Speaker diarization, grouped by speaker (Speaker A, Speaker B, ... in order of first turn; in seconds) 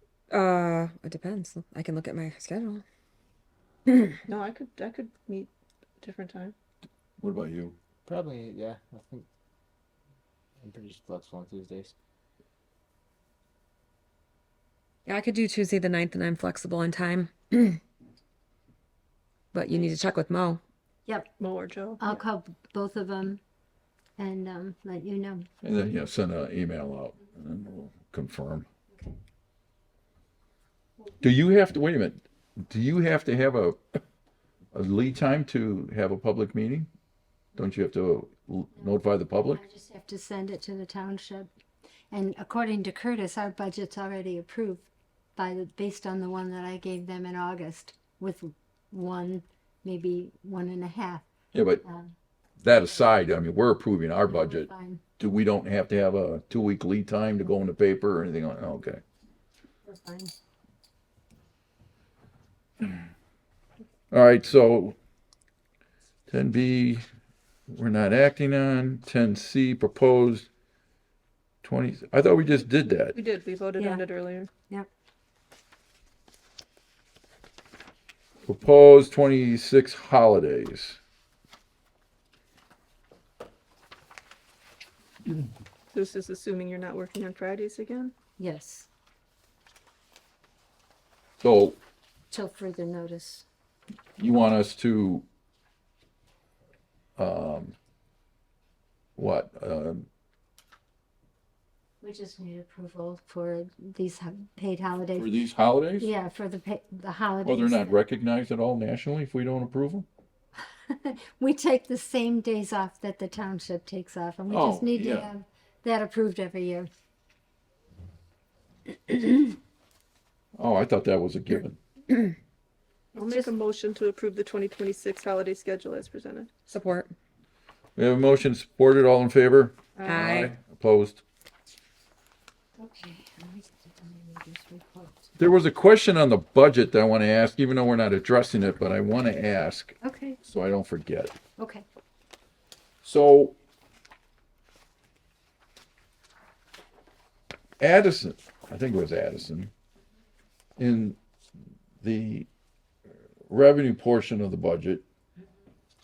Speaker A: 0.3-2.8, 3.9-4.1, 15.1-17.8, 19.5-20.6, 126.7-127.1, 130.1-130.5
Speaker B: 4.3-6.5, 21.4-22.1, 73.1-74.5, 85.9-88.1, 123.2-126.5
Speaker C: 7.2-7.8, 25.6-28.7, 31.2-34.0, 34.7-36.9, 37.6-39.6, 51.5-51.8, 52.6-59.0, 64.1-65.0, 66.3-67.1, 67.7-70.5, 71.6-73.2, 78.5-81.0, 91.4-91.8, 94.2-95.2, 97.2-97.8, 99.2-100.1, 105.2-106.1, 107.4-110.1, 114.5-115.3, 120.6-121.8, 128.0-131.2, 135.4-141.4, 143.0-143.6, 147.8-149.7, 150.8-151.2, 152.0-152.5, 153.5-155.0
Speaker D: 8.1-9.3, 10.6-11.9
Speaker E: 21.1-21.3, 22.0-23.4, 24.2-25.5, 39.5-41.5, 42.1-51.3, 51.8-52.1, 54.3-55.0, 59.9-60.3, 73.8-74.0, 88.4-88.9, 92.3-93.5, 102.0-105.4, 106.0-108.0, 110.9-116.9, 119.1-119.5, 132.8-135.4, 140.0-140.4, 141.6-141.8